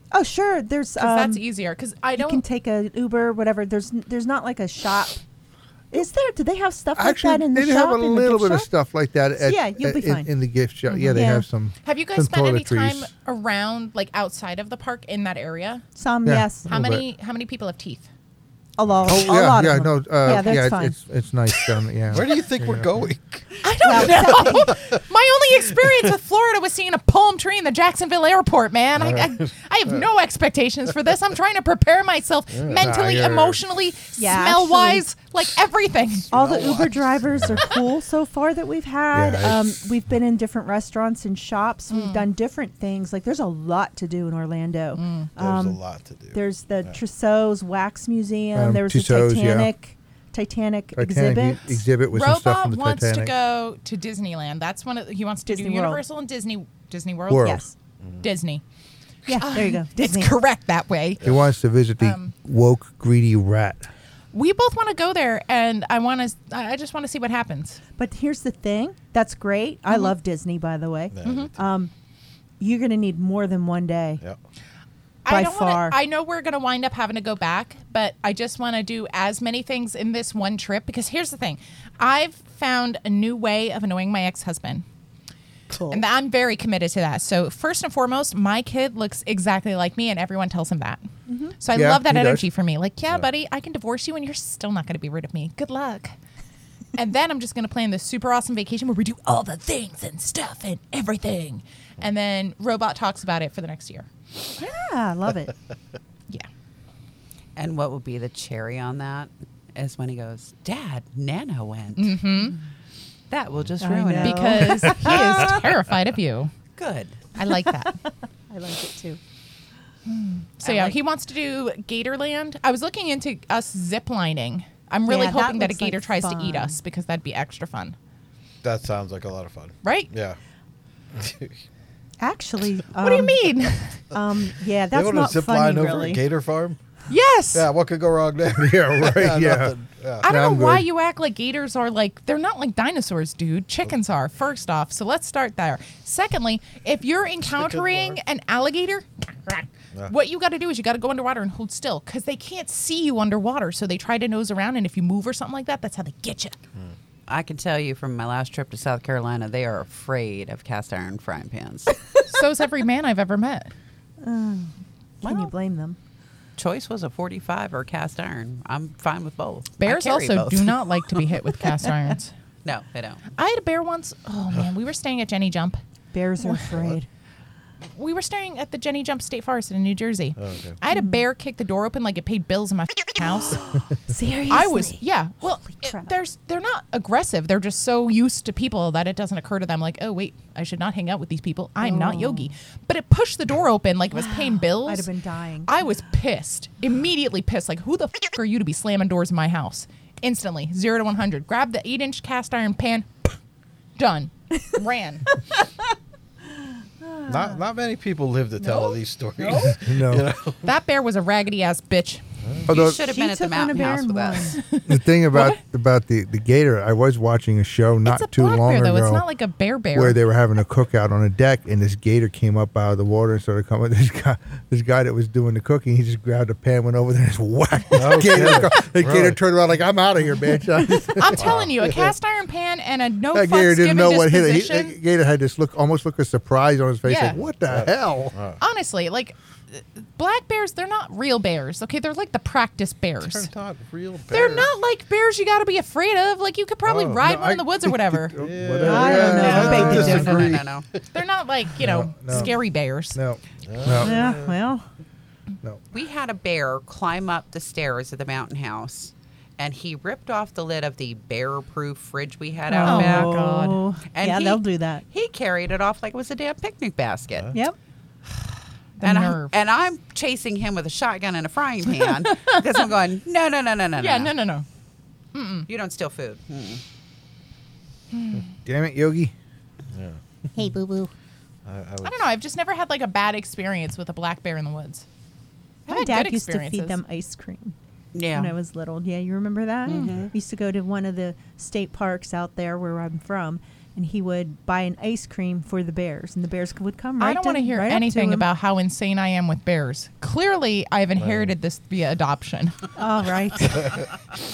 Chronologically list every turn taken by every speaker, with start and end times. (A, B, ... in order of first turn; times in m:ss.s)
0:00.1-0:01.4 A
0:01.0-0:02.4 B
0:02.2-0:05.2 A
0:05.9-0:08.7 A
0:07.0-0:13.1 C
0:09.4-0:10.3 A
0:10.9-0:11.3 B
0:11.1-0:11.5 A
0:11.8-0:15.8 B
0:16.0-0:16.7 A
0:16.2-0:17.0 C
0:16.7-0:18.1 B
0:18.8-0:21.0 A
0:19.1-0:23.1 C
0:22.1-0:23.4 D
0:23.6-0:36.3 B
0:23.8-0:24.7 A
0:29.0-0:29.5 D
0:32.5-0:32.9 D
0:32.8-0:33.6 C
0:34.2-0:35.0 A
0:36.3-0:37.3 D
0:36.3-0:45.8 A
0:39.1-0:39.9 C
0:41.9-0:42.3 B
0:45.0-0:45.3 B
0:45.4-0:47.0 D
0:46.3-0:51.8 A
0:48.6-0:49.7 C
0:51.0-0:53.3 C
0:52.1-0:57.6 B
0:55.5-0:56.0 A
0:57.3-0:57.6 C
0:57.4-0:57.7 A
0:58.2-0:58.6 B
0:59.3-1:00.4 A
0:59.3-1:01.2 B
1:01.2-1:01.5 D
1:01.2-1:03.9 C
1:02.0-1:02.3 B
1:04.3-1:07.8 B
1:08.0-1:11.9 A
1:09.9-1:10.1 B
1:11.1-1:11.7 D
1:11.2-1:11.5 B
1:12.6-1:14.2 A
1:15.2-1:24.8 B
1:15.3-1:16.0 A
1:25.7-1:26.0 A
1:25.9-1:31.1 B
1:31.3-1:31.6 A
1:31.6-1:36.1 B
1:31.7-1:32.4 C
1:37.0-1:44.1 B
1:44.6-1:45.5 A
1:47.6-1:52.5 E
1:52.0-1:52.6 B
1:53.3-1:55.1 E
1:53.8-1:55.6 A
1:54.2-1:56.5 B
1:56.8-1:57.3 E
1:57.4-1:58.0 B
1:57.9-1:59.2 A
2:00.1-2:08.0 B
2:00.6-2:01.0 E
2:05.1-2:06.8 A
2:08.6-2:10.4 D
2:09.8-2:10.1 B
2:11.1-2:11.6 D
2:12.2-2:13.4 A
2:13.0-2:14.0 B
2:14.1-2:16.2 A
2:14.9-2:16.8 D
2:17.1-2:17.7 B
2:17.5-2:20.3 D
2:18.6-2:20.9 C
2:20.2-2:36.6 B
2:27.4-2:28.2 D
2:37.3-2:42.0 E
2:42.3-2:43.7 B
2:44.2-2:46.0 A
2:46.6-2:50.8 E
2:49.8-2:52.3 B
2:52.6-2:53.2 E
2:53.4-2:55.8 B
2:56.1-2:57.1 A
2:58.0-3:03.6 B
3:00.4-3:00.8 D
3:00.9-3:01.2 A
3:03.2-3:05.0 A
3:04.5-3:15.1 B
3:05.7-3:06.1 A
3:11.8-3:12.5 A
3:14.1-3:15.7 A
3:15.7-3:23.1 B
3:24.0-3:25.3 B
3:27.0-3:27.6 A
3:27.3-3:30.7 D
3:28.6-3:29.8 A
3:29.9-3:30.3 C
3:30.6-3:32.2 B
3:32.4-3:32.7 D
3:32.7-3:33.0 C
3:32.7-3:34.6 E
3:32.8-3:34.6 A
3:34.7-3:35.6 B
3:34.9-3:39.2 C
3:38.0-3:40.2 B
3:39.9-3:51.6 C
3:47.9-3:49.4 D
3:51.2-3:55.0 B
3:51.3-3:52.1 D
3:53.3-3:58.4 C
3:57.0-3:57.4 B
3:57.6-3:58.6 D
3:58.6-4:03.5 B
4:03.2-4:04.7 D
4:04.3-4:08.4 B
4:06.8-4:07.2 D
4:07.2-4:10.6 C
4:08.4-4:11.0 D
4:08.8-4:10.5 A
4:09.6-4:10.9 E
4:11.1-4:13.2 B
4:11.8-4:12.6 C
4:13.1-4:14.1 C
4:13.6-4:14.6 D
4:14.0-4:14.8 A
4:15.9-4:23.4 E
4:22.7-4:25.0 A
4:22.8-4:23.8 B
4:24.1-4:27.6 E
4:29.0-4:29.5 B
4:29.0-4:34.3 E
4:32.0-4:32.9 B
4:34.0-4:34.7 B
4:35.3-4:35.7 B
4:35.7-4:36.8 E
4:38.1-4:38.4 B
4:38.7-4:39.3 C
4:39.9-4:40.2 D
4:40.6-4:41.1 A
4:41.6-4:42.2 D
4:42.0-4:45.0 B
4:45.9-4:47.8 A
4:45.9-4:47.0 B
4:48.1-4:48.6 E
4:48.3-4:58.5 A
4:49.9-4:50.3 E
4:57.2-5:02.9 B
5:01.2-5:01.5 D
5:03.0-5:04.0 A